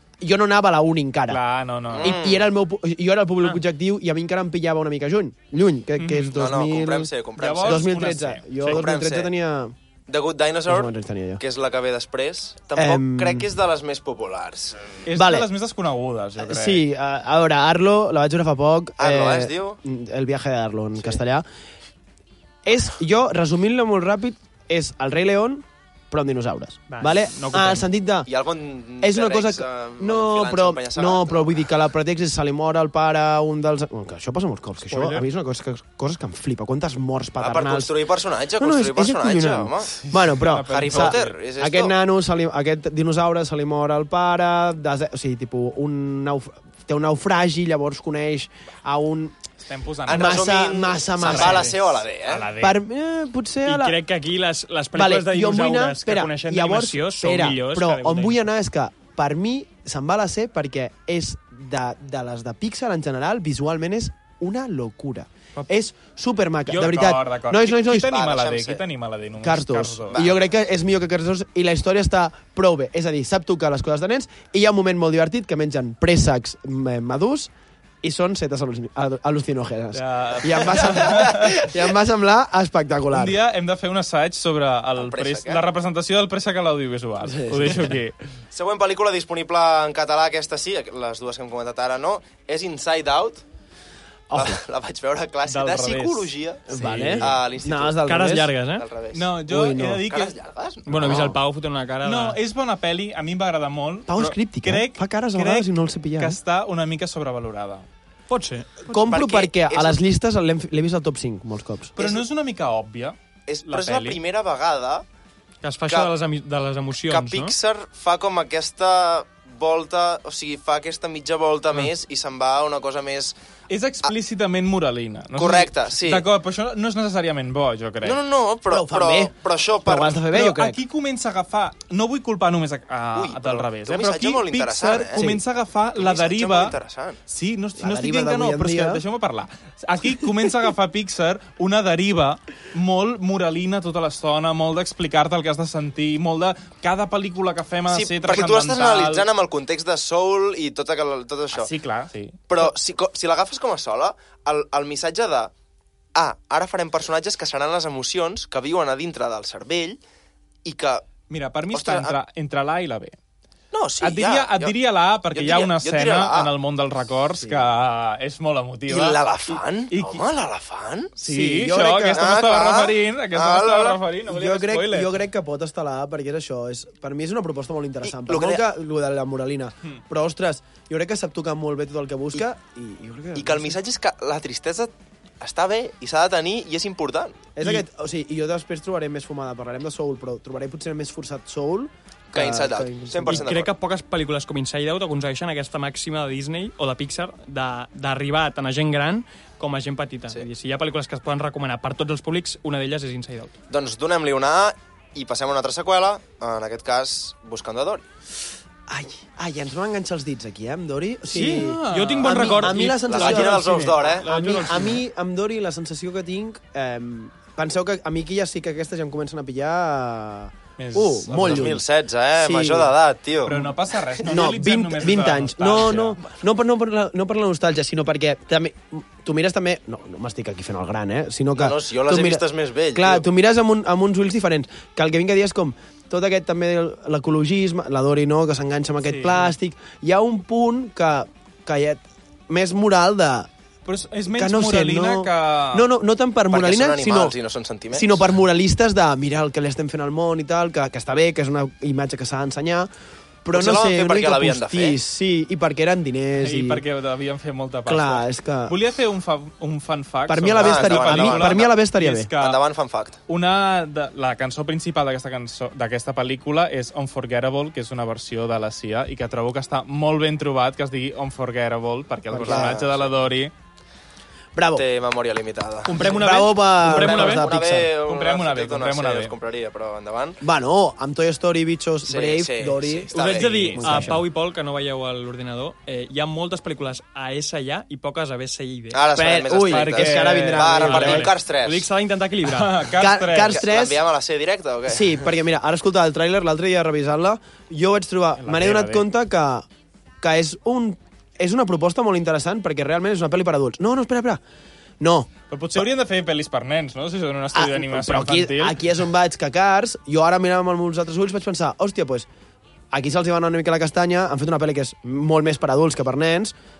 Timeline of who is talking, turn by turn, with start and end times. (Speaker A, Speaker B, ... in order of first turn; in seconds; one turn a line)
Speaker A: 0.2-1.4
Speaker B: 1.3-2.1
Speaker A: 1.9-9.7
Speaker C: 1.9-2.5
Speaker D: 6.0-6.2
Speaker C: 6.3-7.9
Speaker B: 7.4-8.8
Speaker C: 8.6-9.3
Speaker C: 10.1-14.8
Speaker A: 10.7-11.4
Speaker A: 12.7-13.5
Speaker B: 15.0-16.8
Speaker A: 15.1-15.5
Speaker A: 16.4-21.4
Speaker C: 19.0-19.8
Speaker A: 22.6-28.3
Speaker D: 26.9-27.9
Speaker C: 28.2-31.6
Speaker A: 29.0-38.0
Speaker D: 34.9-35.2
Speaker C: 37.4-39.9
Speaker A: 38.6-49.4
Speaker B: 40.0-41.3
Speaker C: 40.7-41.9
Speaker B: 49.6-50.6
Speaker A: 50.1-51.8
Speaker C: 50.1-52.4
Speaker B: 51.2-51.7
Speaker B: 52.2-52.8
Speaker A: 52.6-54.0
Speaker D: 53.6-58.4
Speaker A: 54.9-68.2
Speaker B: 66.7-70.3
Speaker C: 68.0-68.8
Speaker A: 69.4-77.5
Speaker A: 78.0-83.4
Speaker B: 79.9-81.7
Speaker B: 83.1-88.2
Speaker C: 85.0-85.6
Speaker A: 87.2-88.0
Speaker C: 88.5-93.4
Speaker A: 94.3-94.6
Speaker C: 94.3-96.7
Speaker B: 95.5-97.3
Speaker A: 96.7-98.5
Speaker C: 97.2-98.0
Speaker D: 98.0-98.9
Speaker C: 98.7-99.3
Speaker B: 99.1-100.3
Speaker A: 99.5-100.0
Speaker C: 100.0-101.2
Speaker D: 100.9-102.4
Speaker A: 101.0-101.4
Speaker B: 102.0-107.8
Speaker A: 104.1-106.4
Speaker D: 108.3-108.8
Speaker A: 108.8-112.0
Speaker C: 109.1-110.0
Speaker B: 112.0-114.2
Speaker C: 112.0-112.2
Speaker C: 113.5-115.0
Speaker D: 115.6-117.5
Speaker C: 117.1-123.3
Speaker B: 123.7-128.2
Speaker C: 125.3-126.2
Speaker C: 128.0-130.2
Speaker A: 128.7-130.8
Speaker B: 130.3-136.8
Speaker C: 133.1-135.2
Speaker A: 135.2-135.4
Speaker C: 135.9-137.2
Speaker B: 137.3-149.2
Speaker A: 137.8-139.0
Speaker C: 147.9-151.7
Speaker B: 151.5-152.7
Speaker C: 152.5-155.5
Speaker C: 156.1-160.0
Speaker C: 160.6-161.1
Speaker B: 161.3-163.2
Speaker C: 161.7-162.1
Speaker C: 163.7-164.7
Speaker B: 164.0-170.2
Speaker C: 165.3-166.5
Speaker A: 167.4-167.7
Speaker C: 168.9-171.1
Speaker B: 171.2-175.1
Speaker A: 171.2-172.3
Speaker C: 172.1-174.0
Speaker A: 174.3-183.7
Speaker C: 178.1-178.6
Speaker C: 183.3-187.4
Speaker A: 187.6-193.5
Speaker C: 192.3-193.7
Speaker D: 193.3-203.5
Speaker C: 203.7-208.0
Speaker A: 208.9-221.8
Speaker D: 211.3-215.0
Speaker B: 211.5-214.0
Speaker C: 213.1-214.2
Speaker B: 220.8-221.7
Speaker C: 221.4-223.6
Speaker A: 222.4-222.9
Speaker B: 223.4-226.2
Speaker A: 224.2-243.5
Speaker C: 231.6-233.2
Speaker B: 239.0-239.5
Speaker B: 243.8-245.9
Speaker A: 244.3-247.3
Speaker C: 246.5-248.2
Speaker A: 247.9-252.9
Speaker A: 253.4-256.8
Speaker C: 253.5-255.0
Speaker B: 256.4-262.6
Speaker A: 257.9-258.8
Speaker A: 260.3-262.3
Speaker C: 260.6-261.7
Speaker C: 262.4-263.2
Speaker B: 263.3-273.5
Speaker A: 272.3-272.9
Speaker C: 272.4-273.0
Speaker A: 274.5-274.8
Speaker C: 274.7-276.2
Speaker D: 275.8-277.4
Speaker A: 276.0-277.9
Speaker C: 276.8-280.4
Speaker B: 278.0-279.3
Speaker A: 280.4-284.2
Speaker C: 282.0-283.8
Speaker D: 283.1-289.0
Speaker B: 283.7-284.2
Speaker C: 288.9-291.9
Speaker A: 289.1-291.3
Speaker B: 289.7-290.8
Speaker D: 290.8-292.9
Speaker B: 292.4-293.6
Speaker A: 292.9-294.0
Speaker C: 293.5-295.2
Speaker A: 294.9-299.6
Speaker B: 298.4-299.0
Speaker A: 300.2-304.4
Speaker A: 305.0-305.8
Speaker B: 305.5-308.8
Speaker A: 307.5-312.3
Speaker A: 312.9-316.5